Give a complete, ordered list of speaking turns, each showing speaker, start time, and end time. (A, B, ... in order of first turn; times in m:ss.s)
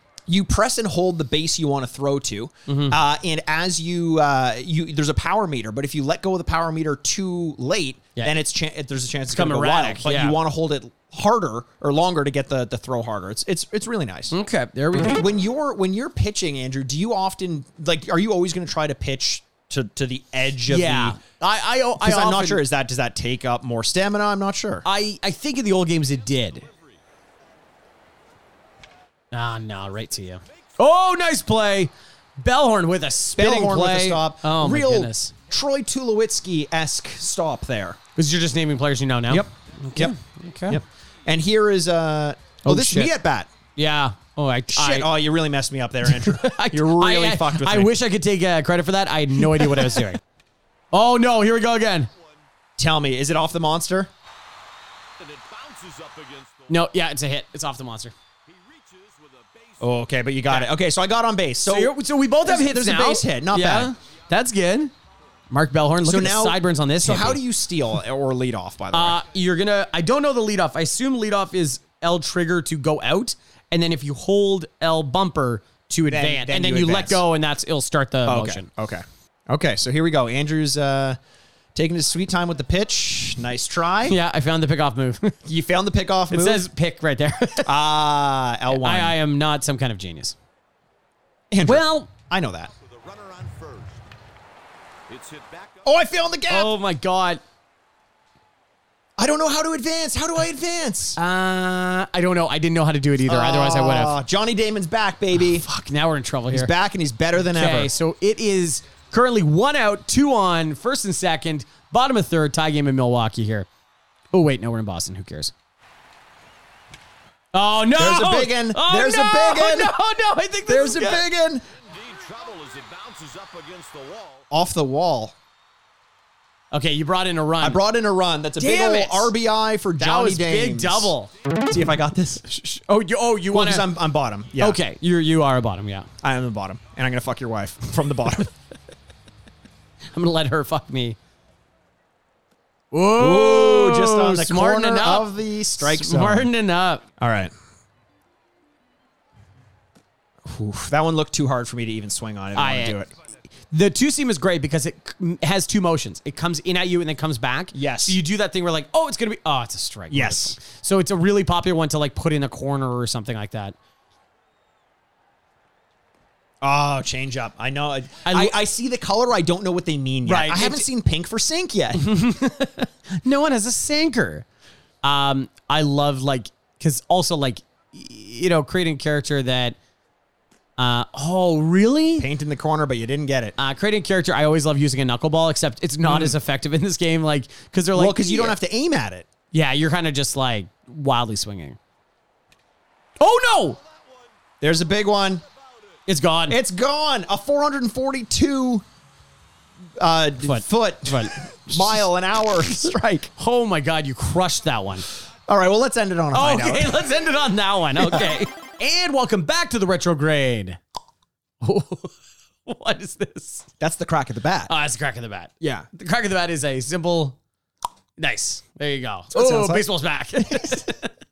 0:00.3-0:14.3 A
0:02.7-0:03.0 B
0:09.3-0:10.4 B
0:14.3-0:15.3 B
0:15.0-0:21.2 A
0:20.7-0:22.6 B
0:22.0-0:24.9 A
0:24.8-0:26.7 B
0:29.3-0:35.3 B
0:33.4-0:38.0 A
0:38.2-0:40.8 B
0:39.3-0:40.2 A
0:40.7-0:43.5 A
0:42.6-0:43.1 B
0:43.8-0:45.1 B
0:44.7-0:47.9 A
0:46.0-0:50.2 B
0:49.4-0:50.1 A
0:50.9-0:52.1 B
0:52.8-0:54.1 A
0:55.2-0:56.9 C
0:56.7-0:58.1 B
0:58.5-1:00.0 C
0:59.8-1:03.9 A
1:01.7-1:04.9 B
1:05.5-1:07.4 B
1:06.0-1:09.2 A
1:08.9-1:18.7 B
1:16.1-1:17.2 A
1:18.3-1:21.2 A
1:21.8-1:24.2 A
1:24.1-1:25.4 B
1:25.4-1:26.6 A
1:26.3-1:27.8 B
1:27.6-1:29.2 A
1:28.7-1:30.4 B
1:31.5-1:32.7 A
1:31.6-1:32.1 B
1:32.8-1:34.0 C
1:35.1-1:36.0 C
1:35.8-1:36.7 A
1:36.5-1:37.4 B
1:39.2-1:41.2 A
1:41.2-1:44.2 B
1:43.3-1:45.7 A
1:45.4-1:46.7 B
1:46.5-1:47.9 A
1:47.4-1:53.7 B
1:54.3-1:55.5 B
1:57.5-2:01.3 B
1:58.0-2:00.0 A
2:00.7-2:01.7 A
2:01.8-2:04.5 C
2:04.5-2:05.4 A
2:06.7-2:07.8 B
2:07.6-2:12.5 A
2:08.6-2:09.3 B
2:10.0-2:11.3 B
2:12.5-2:13.9 B
2:13.5-2:14.8 A
2:14.6-2:16.1 B
2:16.2-2:18.5 A
2:20.1-2:21.2 B
2:22.9-2:27.0 B
2:23.2-2:26.5 A
2:27.2-2:27.5 A
2:30.4-2:33.1 A
2:32.6-2:33.0 B
2:33.7-2:43.8 B
2:37.7-2:38.2 A
2:40.1-2:40.6 A
2:46.6-2:52.1 A
2:48.2-2:48.6 B
2:50.2-2:50.9 B
2:52.0-2:54.5 B
2:55.0-2:59.8 B
3:00.8-3:02.3 B
3:02.2-3:03.6 A
3:03.6-3:08.6 B
3:06.0-3:06.4 A
3:07.9-3:09.3 A
3:09.5-3:11.8 B
3:13.2-3:13.8 B
3:14.6-3:15.4 A
3:16.1-3:16.6 B
3:16.5-3:18.9 A
3:20.0-3:23.3 A
3:20.4-3:22.0 B
3:23.4-3:25.1 B
3:25.5-3:27.0 A
3:26.3-3:30.8 B
3:28.0-3:28.3 A
3:31.6-3:32.2 B
3:32.7-3:33.7 B
3:33.8-3:34.7 A
3:34.7-3:37.4 B
3:35.6-3:35.9 A
3:38.2-3:41.1 B
3:39.3-3:40.9 A